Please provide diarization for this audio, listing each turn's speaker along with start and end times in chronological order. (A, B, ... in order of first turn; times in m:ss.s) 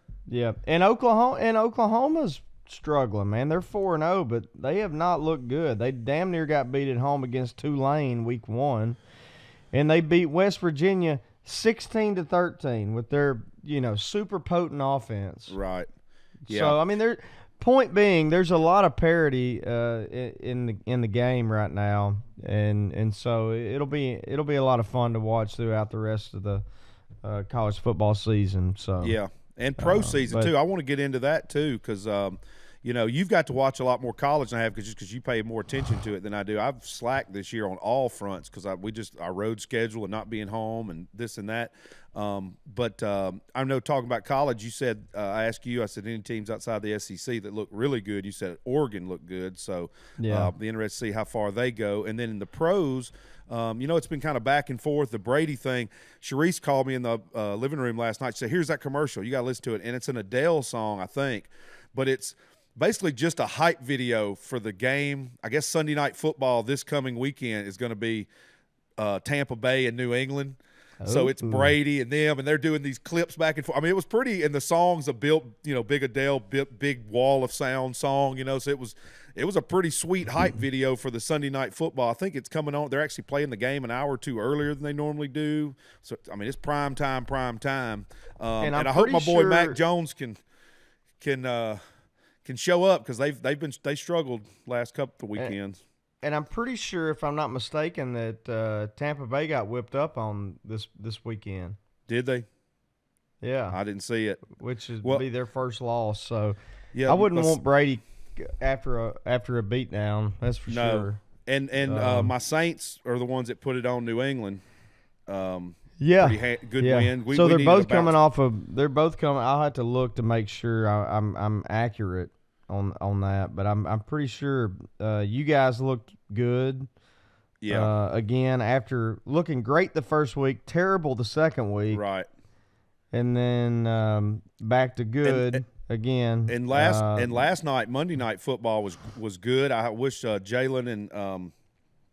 0:00.3-0:09.0 A
0:09.7-0:15.6 A
0:15.5-0:15.9 B
0:16.5-0:26.6 A
0:16.5-0:16.8 B
0:27.2-0:29.2 A
0:29.0-1:08.3 B
0:29.8-0:30.5 A
0:50.2-0:50.5 A
1:09.0-1:30.4 B
1:11.0-1:11.7 A
1:28.6-1:29.8 A
1:31.2-1:31.8 B
1:32.4-1:35.8 B
1:36.2-1:41.8 A
1:42.1-1:42.5 B
1:43.4-1:43.8 A
1:43.7-1:44.4 B
1:44.5-1:51.2 A
1:46.9-1:47.6 B
1:50.7-1:54.6 B
1:51.8-1:52.3 A
1:55.3-1:58.1 B
1:56.0-2:06.9 A
2:07.6-2:07.9 B
2:07.7-2:12.0 A
2:11.9-2:12.3 B
2:13.1-2:17.5 A
2:15.2-2:15.6 B
2:16.5-2:21.5 B